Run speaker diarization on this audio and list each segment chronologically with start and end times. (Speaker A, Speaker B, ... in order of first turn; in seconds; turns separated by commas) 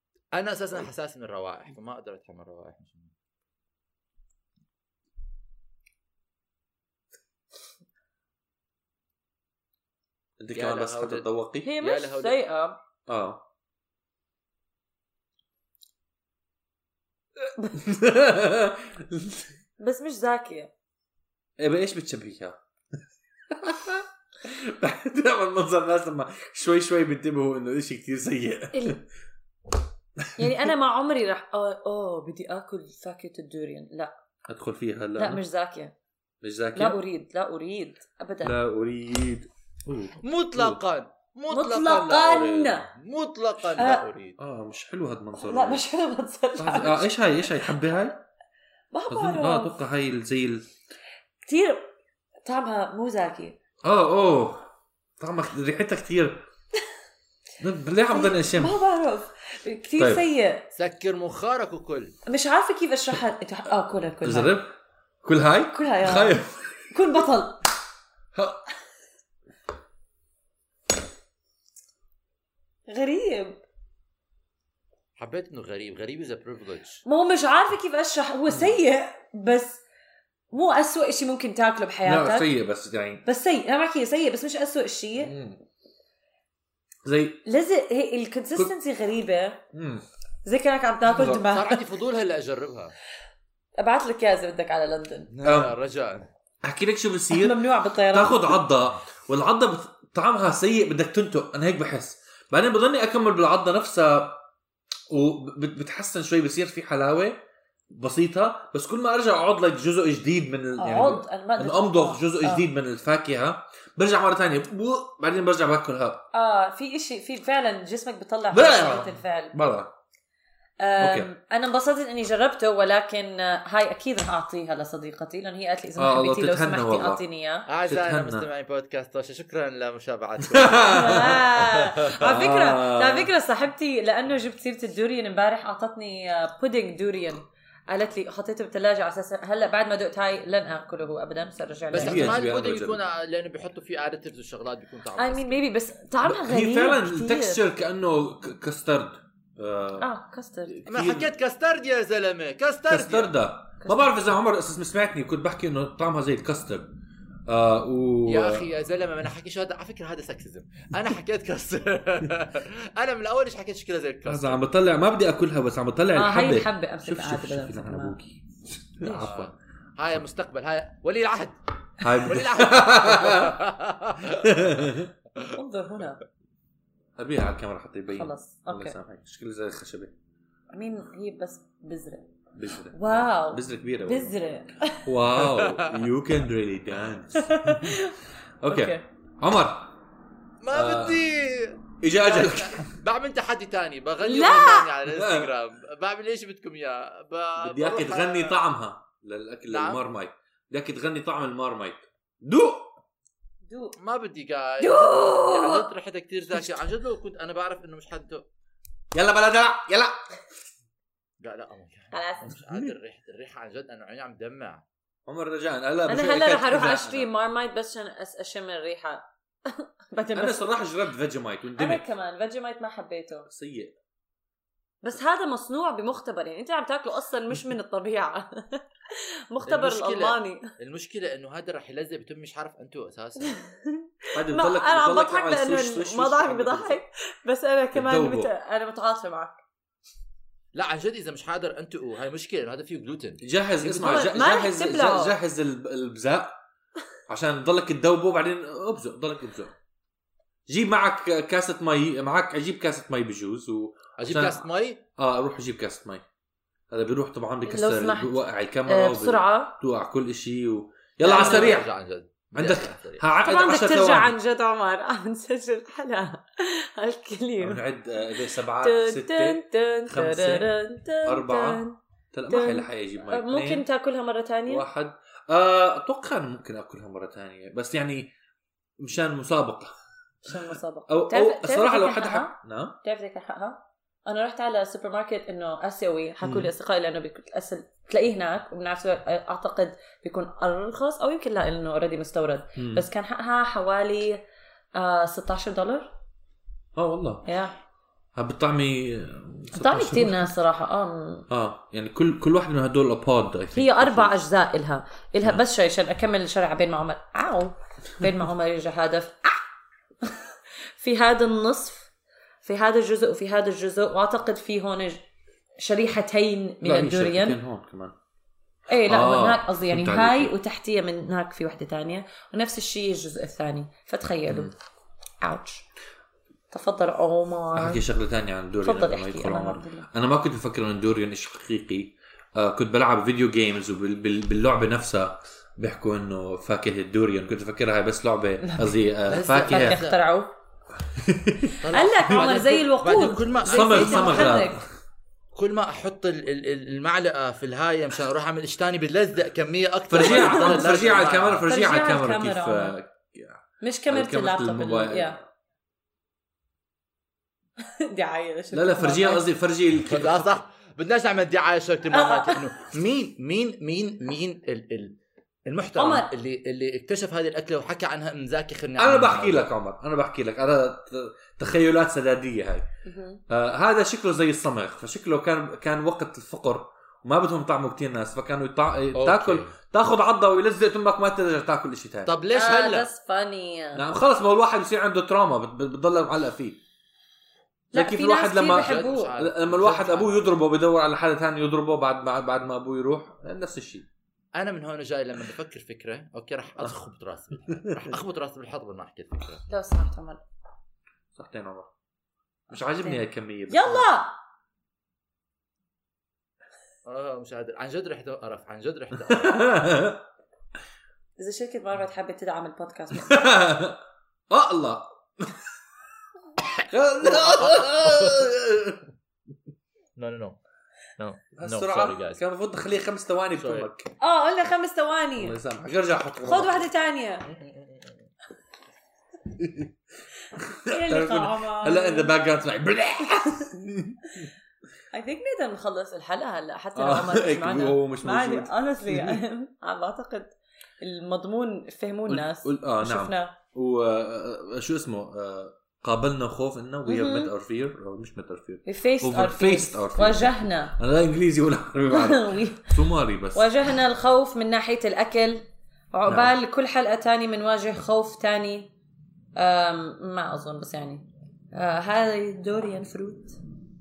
Speaker A: 0.3-3.1, Speaker B: 10.4-11.7, Speaker A: 10.6-11.3, Speaker C: 11.6-12.8, Speaker A: 11.8-12.4, Speaker B: 13.1-13.4, Speaker B: 17.8-19.5, Speaker C: 19.8-20.7, Speaker B: 21.6-22.6, Speaker B: 23.5-29.0, Speaker C: 28.7-29.0, Speaker B: 30.2-30.7, Speaker C: 30.4-34.1, Speaker B: 34.5-35.4, Speaker C: 35.2-36.0, Speaker B: 36.4-37.0, Speaker C: 36.8-38.6, Speaker B: 38.4-40.8, Speaker A: 40.2-44.4, Speaker C: 41.5-42.9, Speaker C: 43.8-44.1, Speaker B: 44.4-45.8, Speaker C: 45.4-47.8, Speaker B: 46.6-48.2, Speaker C: 48.9-49.7, Speaker B: 49.1-50.7, Speaker C: 51.5-51.9, Speaker C: 52.5-53.6, Speaker B: 53.8-54.7, Speaker B: 55.2-56.4, Speaker B: 57.6-58.8, Speaker C: 58.1-60.7, Speaker B: 60.0-60.2, Speaker A: 60.7-62.1, Speaker C: 62.3-64.5, Speaker B: 64.2-66.9, Speaker C: 65.7-67.6, Speaker B: 68.3-68.6, Speaker C: 72.9-73.6, Speaker A: 75.2-77.0, Speaker C: 77.0-79.8, Speaker B: 78.5-78.8, Speaker C: 80.5-82.5, Speaker B: 82.0-83.2, Speaker C: 83.2-85.3, Speaker B: 85.2-85.6, Speaker B: 87.0-87.4, Speaker C: 87.5-89.6, Speaker B: 89.7-90.0, Speaker C: 90.5-91.8, Speaker B: 91.1-91.5, Speaker A: 91.3-92.9, Speaker C: 93.8-95.3, Speaker A: 95.3-96.3, Speaker B: 95.4-95.8, Speaker B: 96.6-97.6, Speaker C: 97.3-98.6, Speaker B: 98.1-104.4, Speaker B: 105.1-116.2, Speaker C: 110.8-112.7, Speaker C: 116.3-119.6, Speaker B: 118.5-119.9, Speaker C: 120.8-127.7, Speaker B: 121.0-121.3, Speaker B: 126.0-127.2, Speaker A: 127.7-131.9, Speaker B: 127.9-128.5, Speaker B: 130.4-131.4, Speaker C: 130.9-142.4, Speaker B: 132.1-133.3, Speaker B: 141.9-143.0, Speaker A: 141.9-145.6, Speaker C: 145.2-147.6, Speaker B: 146.2-150.1, Speaker C: 150.0-150.8, Speaker B: 150.7-151.3, Speaker A: 150.9-153.3, Speaker B: 152.9-156.9, Speaker C: 153.8-154.2, Speaker B: 157.5-158.7, Speaker A: 158.3-164.6, Speaker B: 164.3-168.4, Speaker C: 166.1-168.2, Speaker B: 169.0-169.5, Speaker C: 169.0-169.3, Speaker A: 169.0-175.5, Speaker B: 172.0-173.6, Speaker B: 174.3-175.1, Speaker C: 175.5-176.2, Speaker B: 177.2-180.1, Speaker C: 178.1-179.0, Speaker C: 180.7-182.3, Speaker B: 182.6-184.3, Speaker C: 182.9-185.1, Speaker B: 185.1-188.1, Speaker A: 185.4-186.0, Speaker C: 187.3-189.1, Speaker B: 188.6-189.9, Speaker A: 190.6-198.6, Speaker B: 190.7-191.2, Speaker B: 192.0-192.9, Speaker C: 194.2-194.9, Speaker B: 195.1-195.5, Speaker B: 197.6-202.9, Speaker A: 199.7-200.0, Speaker C: 203.7-204.0, Speaker A: 204.0-208.4, Speaker C: 204.8-205.9, Speaker B: 209.1-210.2, Speaker A: 211.4-214.8, Speaker C: 212.1-212.6, Speaker B: 212.6-212.9, Speaker B: 215.3-217.3, Speaker C: 216.1-220.8, Speaker B: 220.3-222.0, Speaker C: 221.8-223.5, Speaker B: 223.5-223.9, Speaker C: 225.0-230.7, Speaker A: 229.7-233.6, Speaker C: 233.4-239.6, Speaker B: 234.3-237.0, Speaker B: 237.9-238.5, Speaker A: 240.7-244.2, Speaker B: 243.4-246.6, Speaker C: 243.9-245.4, Speaker B: 247.3-249.7, Speaker B: 250.7-254.7, Speaker A: 254.2-255.0, Speaker B: 255.2-256.2, Speaker B: 256.9-261.9, Speaker C: 257.6-259.8, Speaker C: 261.2-261.8, Speaker A: 261.2-263.3, Speaker B: 262.6-264.4, Speaker C: 263.4-267.8, Speaker B: 267.6-270.7, Speaker C: 268.4-272.0, Speaker B: 271.2-271.8, Speaker B: 272.3-273.9, Speaker C: 272.5-274.9, Speaker B: 274.7-278.3, Speaker B: 279.0-279.9, Speaker C: 280.4-294.4, Speaker B: 280.5-283.0, Speaker B: 286.4-286.7, Speaker B: 292.8-293.1, Speaker C: 295.0-296.1, Speaker B: 297.0-297.4, Speaker C: 297.4-297.8, Speaker B: 298.4-300.4, Speaker C: 299.7-301.4, Speaker B: 301.5-304.4, Speaker C: 303.8-309.6, Speaker C: 310.2-312.1, Speaker C: 312.6-315.2, Speaker C: 315.8-317.6, Speaker B: 316.8-318.1, Speaker C: 318.9-324.7, Speaker B: 319.1-320.6, Speaker B: 324.5-324.7, Speaker C: 325.4-325.9, Speaker C: 326.7-328.0, Speaker B: 327.7-340.0, Speaker C: 328.8-330.1, Speaker C: 338.6-338.9, Speaker A: 339.3-340.2, Speaker C: 339.6-340.5, Speaker B: 341.1-341.8, Speaker A: 341.8-344.7, Speaker C: 341.9-344.8, Speaker B: 343.7-344.8, Speaker A: 345.6-351.7, Speaker B: 350.1-355.4, Speaker C: 350.2-350.8, Speaker C: 351.7-352.9, Speaker C: 353.8-355.4, Speaker C: 357.8-359.4, Speaker B: 358.7-360.6, Speaker A: 360.0-369.7, Speaker C: 362.1-362.7, Speaker C: 366.0-366.3, Speaker B: 369.0-372.9, Speaker C: 373.1-373.4, Speaker B: 373.5-382.3, Speaker A: 379.1-379.7, Speaker A: 382.3-383.1, Speaker C: 382.5-384.0, Speaker B: 383.9-386.8, Speaker C: 387.9-389.4, Speaker B: 387.9-394.1, Speaker A: 388.7-390.6, Speaker A: 394.6-399.6, Speaker B: 397.7-398.1, Speaker C: 399.7-400.4, Speaker B: 401.4-401.9, Speaker B: 402.7-404.1, Speaker C: 402.7-404.3, Speaker A: 407.1-409.7, Speaker B: 409.3-410.2, Speaker C: 411.4-413.4, Speaker B: 413.1-415.6, Speaker B: 416.9-419.0, Speaker A: 417.2-418.5, Speaker A: 420.2-420.6, Speaker A: 421.2-422.4, Speaker B: 421.6-424.1, Speaker A: 423.6-423.9, Speaker C: 424.2-425.6, Speaker B: 425.4-426.9, Speaker C: 426.4-427.5, Speaker A: 427.5-428.1, Speaker B: 429.5-429.9, Speaker B: 430.6-434.5, Speaker C: 430.8-432.3, Speaker C: 435.1-443.6, Speaker B: 437.0-439.4, Speaker B: 442.3-453.7, Speaker C: 447.1-447.5, Speaker C: 448.9-451.0, Speaker C: 452.1-452.9, Speaker C: 453.5-458.9, Speaker B: 456.3-456.5, Speaker C: 459.6-463.6